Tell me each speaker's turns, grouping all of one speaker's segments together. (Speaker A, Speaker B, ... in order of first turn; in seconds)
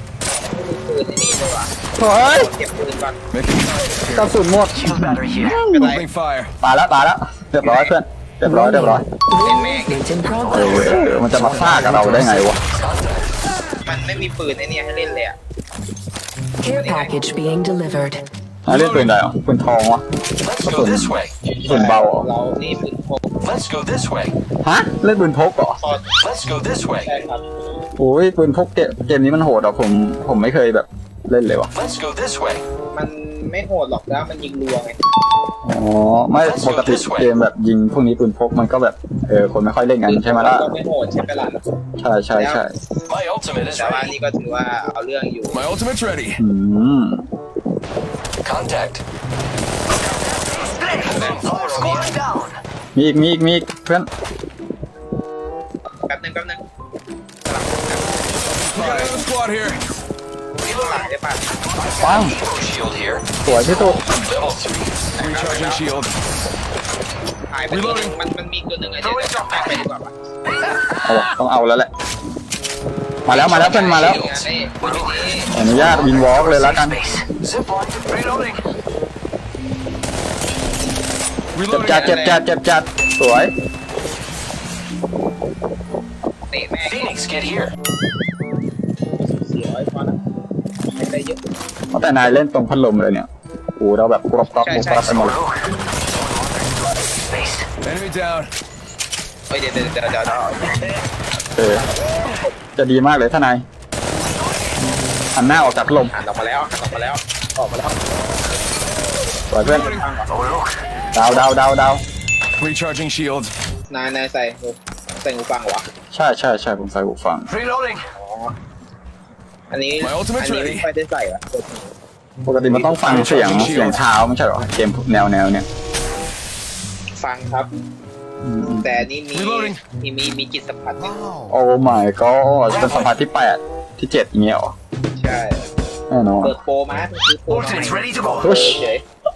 Speaker A: 0.4-3.1, 5.5-6.0, 7.6-7.9, 9.4-11.1, 13.8-15.4, 16.6-17.3, 21.5-23.3, 25.8-26.1, 27.0-27.4, 32.9-34.9, 40.1-41.6, 42.3-42.6, 43.8-45.6, 50.9-51.4, 56.0-56.6, 57.4-58.9, 60.6-61.5, 65.2-65.8, 67.5-70.1, 73.3-75.5, 82.0-82.4, 86.5-87.1, 89.2-90.2, 90.9-91.4, 94.5-95.3, 99.5-100.8, 101.6-102.1, 106.1-108.3, 109.6-110.3, 113.9-115.8, 118.2-118.5, 119.7-121.9, 122.7-123.7, 127.2-127.7, 128.8-131.2, 135.1-135.6, 136.4-139.0
Speaker B: 2.0-2.5, 4.1-5.9, 6.6-9.0, 10.5-12.6, 18.7-20.0, 20.6-22.3, 24.6-25.8, 28.0-31.7, 35.6-40.7, 42.0-42.7, 46.4-47.2, 52.9-54.1, 62.0-62.4, 63.4-64.1, 71.0-71.9, 73.2-74.2, 75.5-77.0, 81.7-83.5, 91.9-95.4, 101.5-101.9, 102.7-103.6, 105.3-106.1, 109.5-109.9, 111.1-112.0, 116.1-117.5, 122.4-125.6, 128.4-128.8, 131.5-134.7, 136.1-136.5, 138.4-138.8
Speaker C: 3.3-4.3, 5.8-6.5, 18.7-19.1, 45.5-46.4, 58.5-59.8, 65.2-66.2, 67.7-68.2, 81.5-82.2, 97.8-98.5, 109.7-110.1, 111.2-111.5, 112.6-113.5, 117.7-118.0, 120.0-120.9, 123.0-124.0, 129.3-129.8
Speaker D: 4.8-5.5, 10.4-11.0, 12.7-13.3, 20.4-21.3, 23.4-24.3, 26.2-27.1, 31.7-32.6, 36.4-37.3, 43.1-44.1, 48.4-49.0, 50.5-52.5, 61.8-65.1, 69.0-69.8, 73.3-78.6, 86.8-87.7, 95.1-95.6, 96.1-97.7, 110.3-110.7, 117.5-118.0, 137.5-138.5
Speaker E: 8.4-12.5, 16.6-18.2